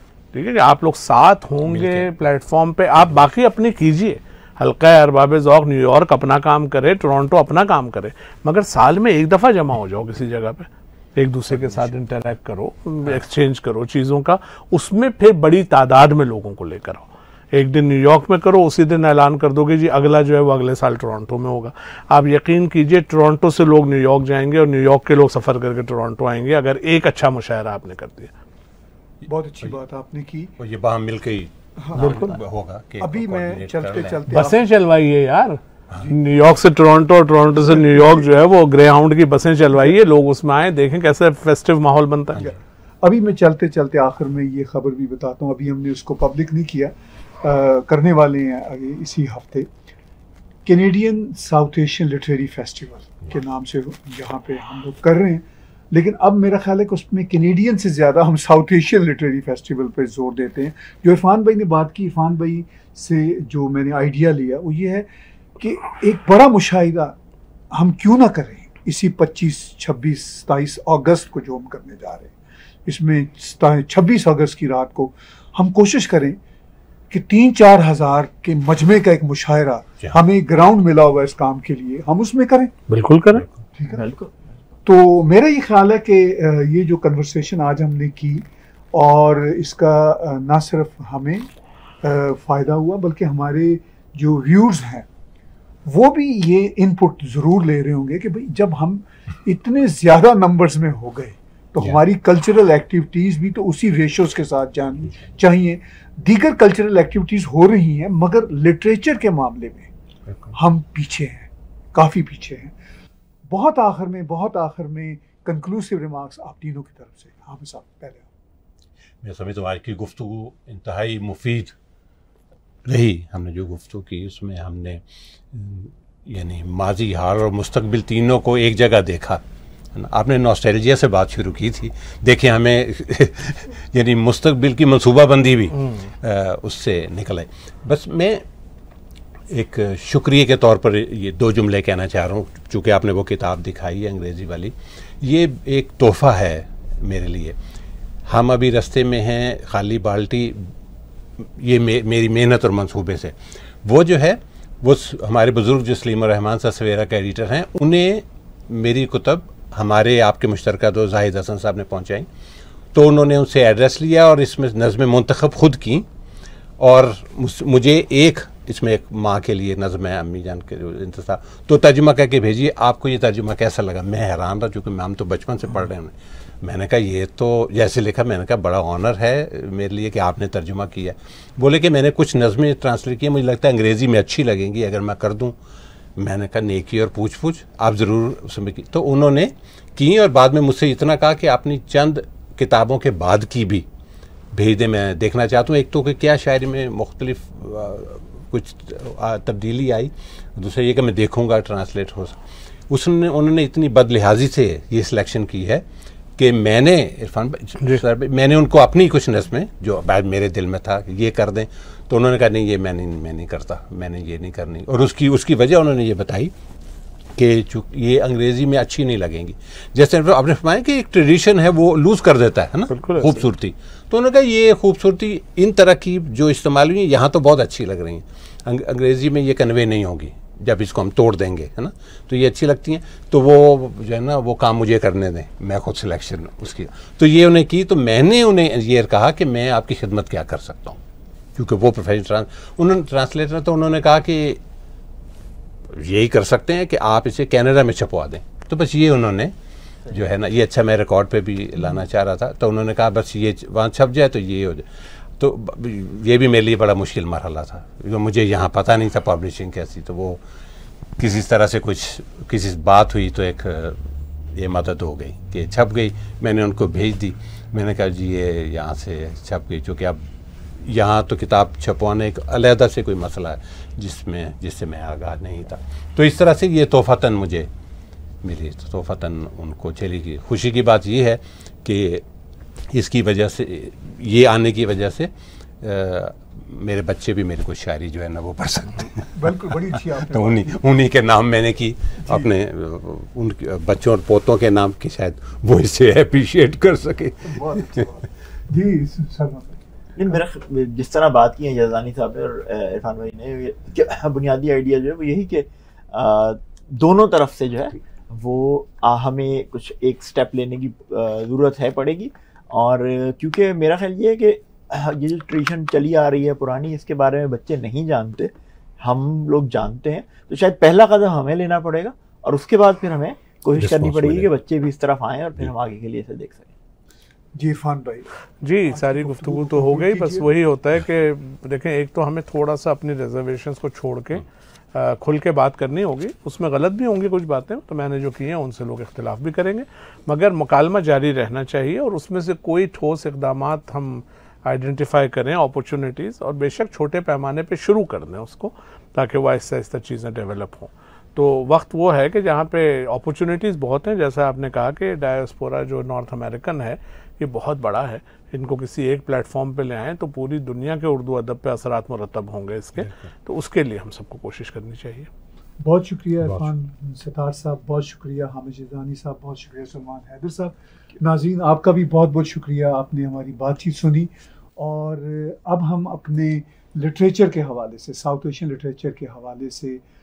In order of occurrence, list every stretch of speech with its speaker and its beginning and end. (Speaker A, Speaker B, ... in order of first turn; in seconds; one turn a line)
Speaker A: 0.3-28.3
Speaker B: 1.7-2.1
Speaker B: 11.5-11.9
Speaker C: 29.3-30.6
Speaker B: 30.6-34.3
Speaker C: 31.8-32.4
Speaker A: 32.0-32.4
Speaker C: 33.0-34.7
Speaker A: 34.3-42.5
Speaker C: 37.6-38.3
Speaker C: 42.4-49.7
Speaker C: 50.7-65.1
Speaker C: 65.6-67.2
Speaker C: 67.7-72.3
Speaker C: 72.9-76.4
Speaker C: 77.1-82.7
Speaker A: 82.9-83.5
Speaker C: 83.8-84.2
Speaker D: 84.0-84.3
Speaker C: 84.8-91.5
Speaker C: 92.0-95.1
Speaker C: 95.9-109.9
Speaker B: 110.3-110.5
Speaker C: 110.5-112.8
Speaker C: 113.5-118.3
Speaker B: 119.2-121.8
Speaker B: 122.9-129.4
Speaker B: 129.9-138.4
Speaker A: 135.8-136.1
Speaker B: 139.5-147.6
Speaker B: 148.3-150.7
Speaker B: 151.4-162.3
Speaker B: 162.9-166.1
Speaker B: 166.8-185.6
Speaker B: 186.2-193.9
Speaker B: 194.5-205.8
Speaker B: 206.4-216.5
Speaker B: 217.3-241.0
Speaker A: 222.9-223.5
Speaker B: 241.6-244.6
Speaker B: 245.9-249.5
Speaker B: 250.1-260.4
Speaker B: 261.2-270.2
Speaker B: 270.8-277.7
Speaker B: 278.4-282.2
Speaker B: 282.9-289.5
Speaker C: 289.3-290.8
Speaker B: 290.1-298.1
Speaker C: 292.2-292.5
Speaker C: 297.5-299.9
Speaker D: 300.2-326.7
Speaker B: 323.8-324.5
Speaker C: 327.6-328.3
Speaker A: 328.6-365.3
Speaker C: 328.9-330.5
Speaker B: 363.0-363.3
Speaker C: 365.8-380.0